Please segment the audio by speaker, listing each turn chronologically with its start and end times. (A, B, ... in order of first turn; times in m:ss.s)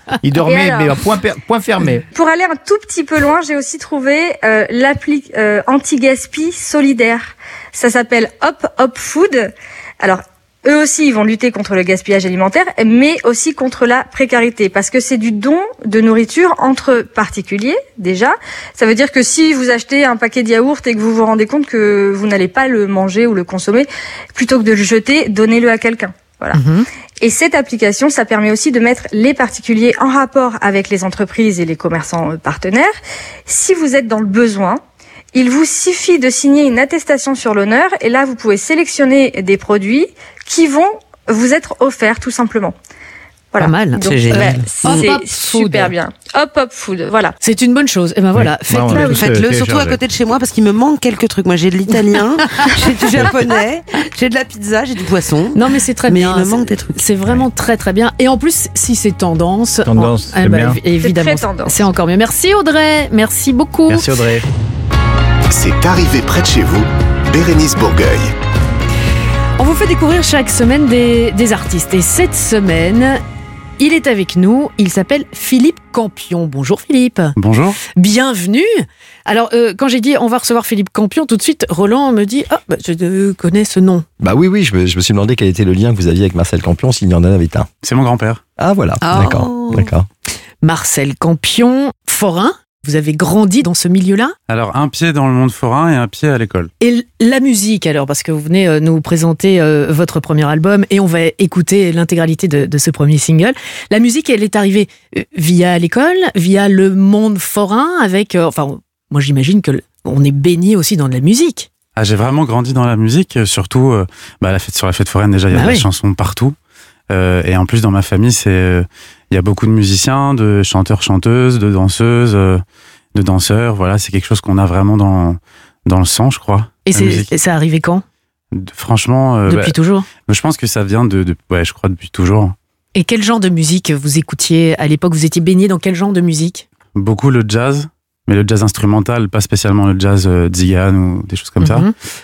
0:00.2-0:02.1 A
0:00.5-0:01.0 B
0:02.1-0:26.6 B
0:26.5-0:26.8 C
0:27.2-0:32.9 B
0:33.5-0:34.8 B
0:35.3-0:42.7 B
0:43.5-0:47.4 B
0:43.6-0:45.9 C
0:44.0-0:45.0 D
0:47.4-0:49.2 C
0:48.4-0:50.0 A
0:48.9-0:57.0 D
0:55.6-1:04.1 C
0:59.8-1:00.8 A
1:00.9-1:01.8 B
1:03.9-1:04.5 A
1:05.5-1:08.3 E
1:09.6-1:13.2 C
1:13.8-1:17.4 C
1:17.4-1:17.8 F
1:17.9-1:24.0 C
1:24.2-1:27.7 G
1:27.8-1:28.4 F
1:28.6-1:30.1 G
1:29.0-1:29.9 D
1:30.6-1:34.4 C
1:34.5-1:36.7 F
1:36.8-1:51.7 C
1:52.0-1:56.6 F
1:55.5-1:55.9 C
1:57.1-2:02.6 F
2:03.2-2:07.3 F
2:06.9-2:08.0 C
2:08.5-2:12.6 F
2:09.5-2:10.1 C
2:13.0-2:16.6 C
2:17.0-2:21.9 F
2:21.6-2:21.9 C